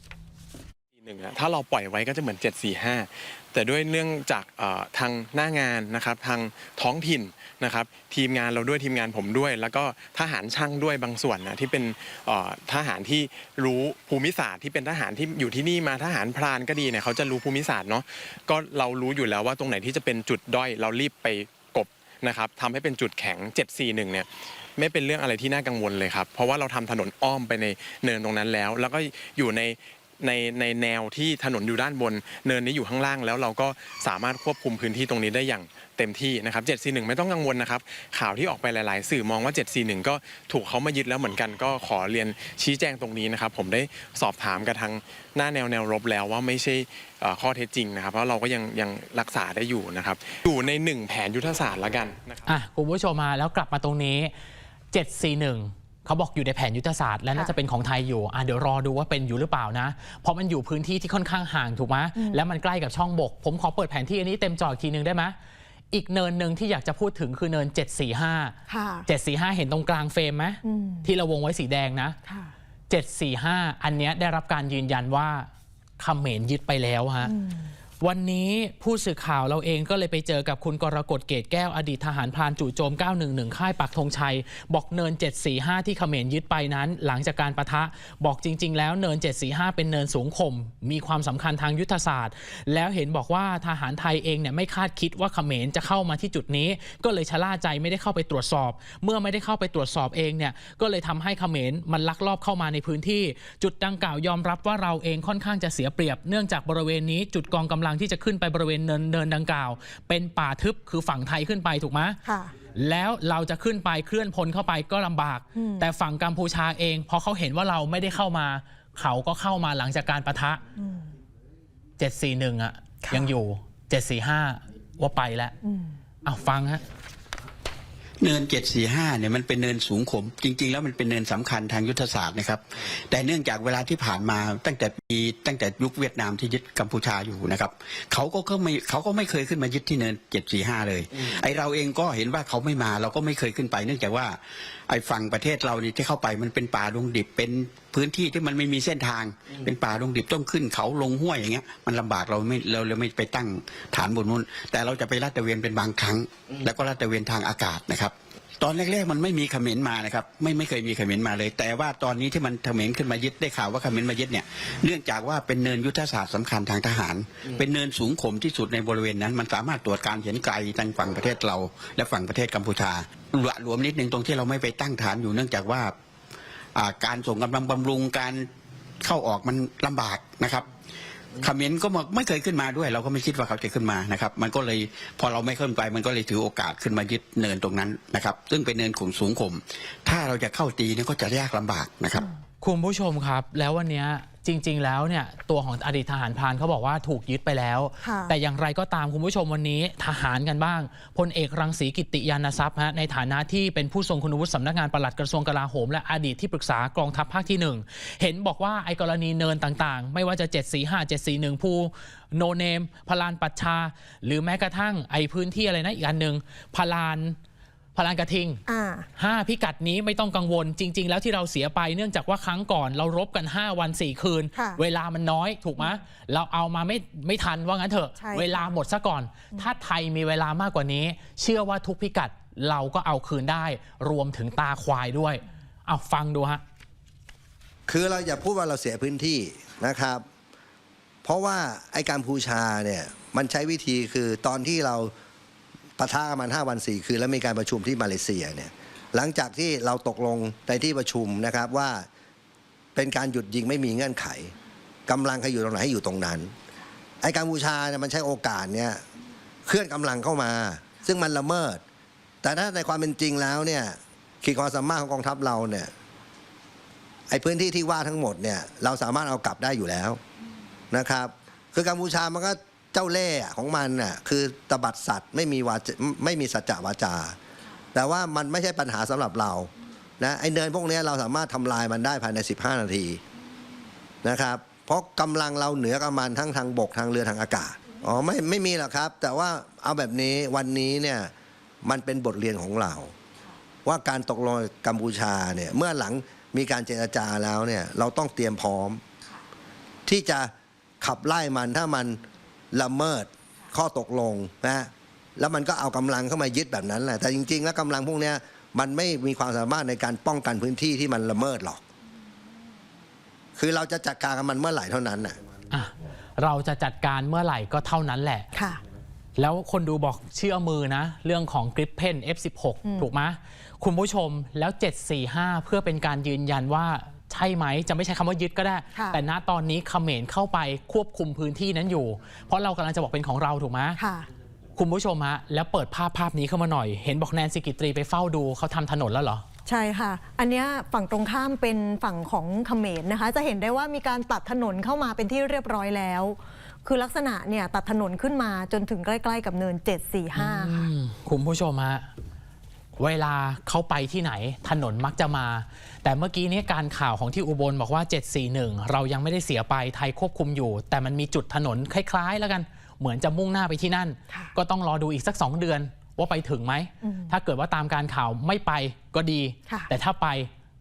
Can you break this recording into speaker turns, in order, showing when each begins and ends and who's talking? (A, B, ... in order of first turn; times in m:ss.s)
0:01.0-0:52.5 A
0:52.5-0:54.3 B
0:54.9-1:05.4 B
1:05.9-1:08.6 B
1:08.7-1:09.0 C
1:09.1-1:12.2 B
1:10.6-1:11.1 C
1:12.2-1:12.5 C
1:12.9-1:15.5 B
1:16.0-1:17.3 B
1:17.2-1:17.7 C
1:18.0-1:52.2 B
1:52.2-1:52.5 C
1:52.7-2:00.6 B
1:55.6-1:55.9 C
2:00.8-2:01.1 C
2:02.0-2:05.5 B
2:05.6-2:06.0 C
2:06.2-2:06.8 B
2:08.2-2:24.4 D
2:24.9-2:55.9 D
2:56.7-2:58.5 D
2:59.0-3:00.7 D
3:01.4-3:12.3 D
3:12.6-3:37.4 B
3:18.0-3:18.3 C
3:37.9-3:38.6 B
3:38.7-3:39.1 C
3:39.2-3:56.6 B
3:44.5-3:44.8 C
3:48.2-3:48.7 C
3:57.9-4:00.2 E
4:01.2-4:05.1 E
4:06.0-4:12.1 E
4:12.9-4:14.5 E
4:15.1-4:16.5 E
4:17.2-4:19.0 E
4:19.6-4:21.8 E
4:22.4-4:25.9 E
4:27.3-4:30.2 E
4:30.9-4:37.4 E
4:37.9-4:43.2 E
4:44.2-4:51.3 E
4:51.8-4:53.1 E
4:53.8-4:59.0 E
5:00.0-5:11.8 E
5:13.6-5:15.4 E
5:15.7-5:18.5 B
5:18.5-5:18.8 C
5:19.4-5:34.0 B
5:28.9-5:29.2 C
5:34.0-5:34.3 C
5:34.8-5:39.4 B
5:39.6-5:50.9 C
5:50.3-5:52.1 B
5:53.0-6:10.5 B
6:07.0-6:07.3 C